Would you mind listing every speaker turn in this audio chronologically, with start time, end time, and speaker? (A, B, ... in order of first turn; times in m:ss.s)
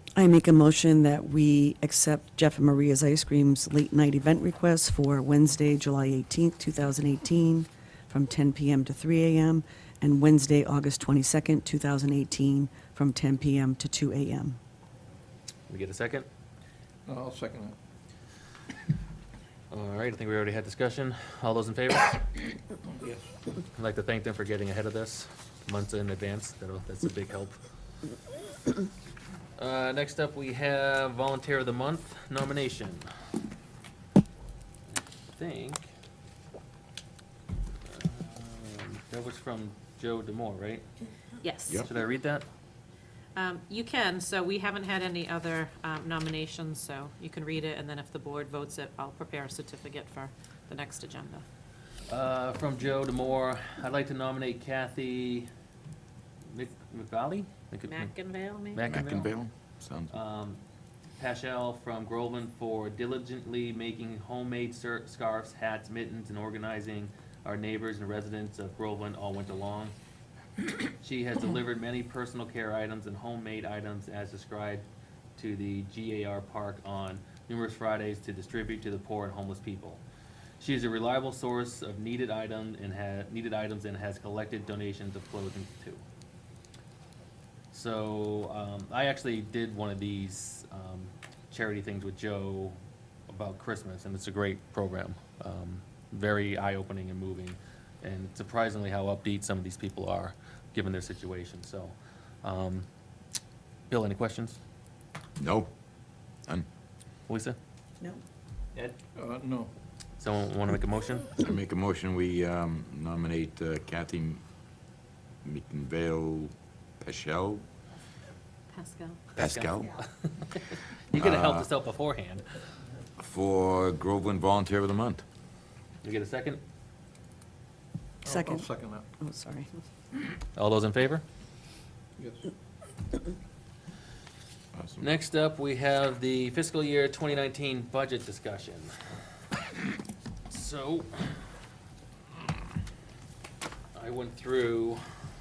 0:00.2-0:14.6 A
0:15.7-0:16.3 B
0:17.0-0:17.8 C
0:19.7-0:22.2 B
0:22.9-0:23.4 C
0:23.8-0:27.6 B
0:29.6-0:33.1 B
0:34.9-0:35.8 B
0:37.8-0:40.8 B
0:41.4-0:41.8 D
0:41.8-0:42.4 B
0:43.4-0:51.4 D
0:52.1-0:55.5 B
0:56.5-0:58.1 B
0:57.9-0:58.8 D
0:58.7-0:59.3 B
0:58.9-1:00.1 E
1:00.1-1:00.6 B
1:01.2-1:09.9 B
1:11.0-1:14.8 B
1:15.4-1:20.0 B
1:20.6-1:26.0 B
1:27.7-1:32.8 B
1:33.3-1:42.8 B
1:43.9-1:44.6 B
1:45.4-1:45.7 E
1:47.3-1:47.6 B
1:49.1-1:49.7 C
1:50.2-1:51.3 B
1:51.4-1:54.4 E
1:55.4-1:57.6 E
1:58.7-1:59.2 D
1:59.4-2:02.4 B
1:59.4-1:59.9 E
2:01.1-2:01.7 E
2:03.2-2:05.2 E
2:06.0-2:06.6 B
2:08.2-2:09.0 C
2:08.3-2:09.7 A
2:10.6-2:11.2 B
2:12.2-2:12.4 C
2:14.7-2:15.1 E
2:15.0-2:18.9 B
2:20.5-2:21.2 B
2:23.9-2:25.0 B